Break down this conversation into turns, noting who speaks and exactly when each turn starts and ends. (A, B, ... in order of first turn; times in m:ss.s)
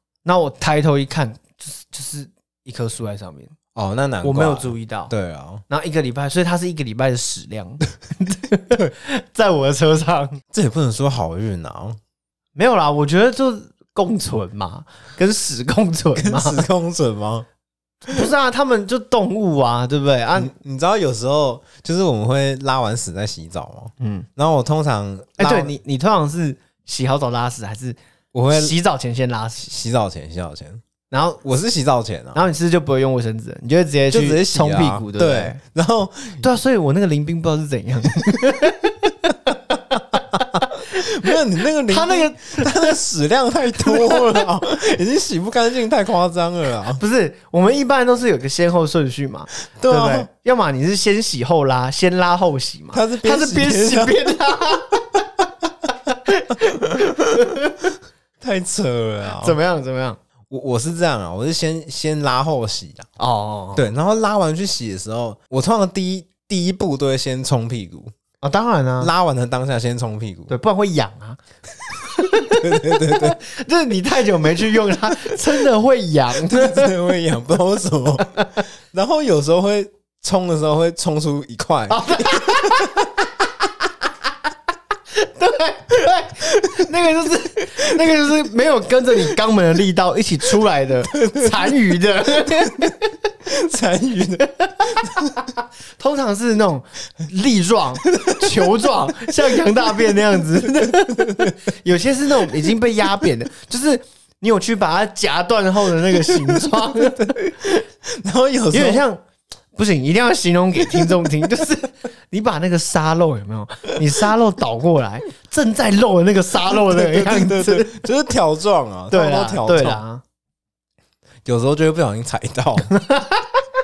0:00.2-0:03.5 A
0:03.8-0:05.6 B
0:04.2-0:05.1 A
0:05.7-0:10.4 A
0:10.5-0:12.0 B
0:12.6-0:16.6 A
0:16.2-0:17.5 B
0:18.1-0:20.6 A
0:20.4-0:25.8 B
0:24.0-0:24.3 A
0:25.4-0:28.0 A
0:28.3-0:28.8 B
0:28.5-0:29.7 A
0:29.6-0:30.8 B
0:31.1-0:31.4 A
0:31.4-0:32.4 B
0:32.3-0:35.6 A
0:34.1-0:36.4 B
0:36.4-0:43.0 A
0:40.4-0:47.0 B
0:43.8-0:44.4 A
0:47.0-0:55.3 A
0:49.8-0:50.3 B
0:52.9-0:54.2 B
0:56.1-0:57.8 A
0:56.6-0:57.5 B
0:58.4-0:59.6 B
0:59.2-1:00.2 A
1:00.5-1:03.1 B
1:03.2-1:03.9 A
1:03.8-1:08.1 B
1:08.4-1:09.1 A
1:09.0-1:10.6 B
1:10.5-1:11.4 A
1:11.9-1:16.9 A
1:12.4-1:13.4 B
1:14.6-1:15.4 B
1:16.4-1:23.2 B
1:18.4-1:18.7 A
1:21.9-1:23.0 A
1:25.1-1:33.1 A
1:27.8-1:28.2 B
1:31.1-1:35.5 B
1:34.7-1:47.4 A
1:38.0-1:41.6 B
1:42.4-1:42.7 B
1:46.2-1:49.0 B
1:48.7-1:49.2 A
1:49.8-1:57.9 A
1:50.9-1:51.1 B
1:56.6-2:00.0 B
1:59.1-2:00.2 A
2:01.4-2:02.9 B
2:02.9-2:03.6 A